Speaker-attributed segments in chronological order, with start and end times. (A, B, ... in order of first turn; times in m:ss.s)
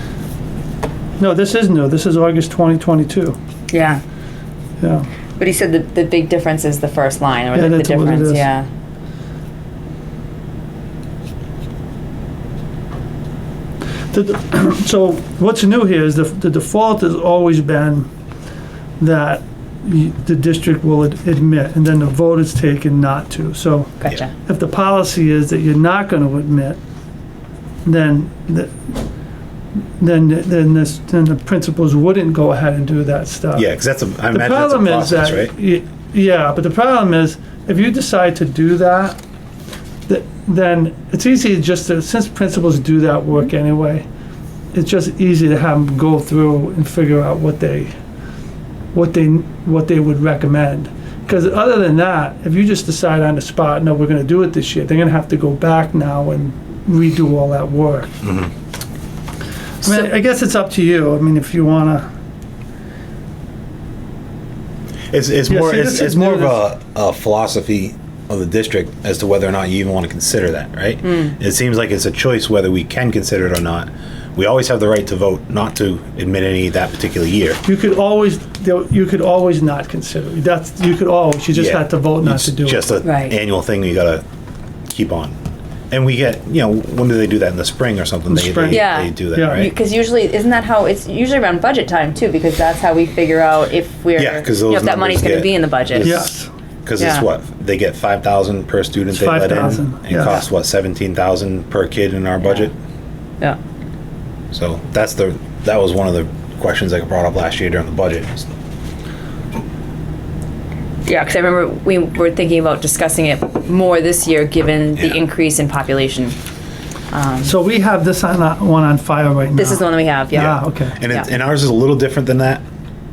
0:01.2-0:03.4 A
0:03.7-0:04.0 B
0:04.8-0:05.1 A
0:05.4-0:08.6 B
0:07.5-0:08.5 A
0:14.1-0:18.1 A
0:19.0-0:26.8 A
0:24.0-0:24.3 B
0:27.8-0:28.8 A
0:30.0-0:33.7 A
0:33.6-0:35.5 C
0:34.3-0:39.2 A
0:40.1-0:44.0 A
0:44.7-0:47.9 A
0:48.9-0:58.1 A
0:58.2-0:58.5 C
0:59.8-1:00.1 B
0:59.8-1:02.0 A
1:05.1-1:17.6 C
1:05.5-1:06.6 A
1:11.0-1:11.3 B
1:17.6-1:22.8 A
1:21.5-1:24.2 C
1:23.0-1:23.3 B
1:24.9-1:25.4 C
1:25.9-1:29.7 C
1:28.3-1:29.7 A
1:28.7-1:36.2 B
1:34.2-1:36.3 C
1:36.0-1:36.5 A
1:36.8-1:42.7 C
1:37.0-1:37.3 B
1:39.1-1:40.4 A
1:42.4-1:42.7 B
1:44.5-1:48.5 C
1:51.0-1:56.4 B
1:57.1-1:57.6 B
1:57.4-2:01.0 A
1:59.6-2:01.3 B
2:00.3-2:02.6 C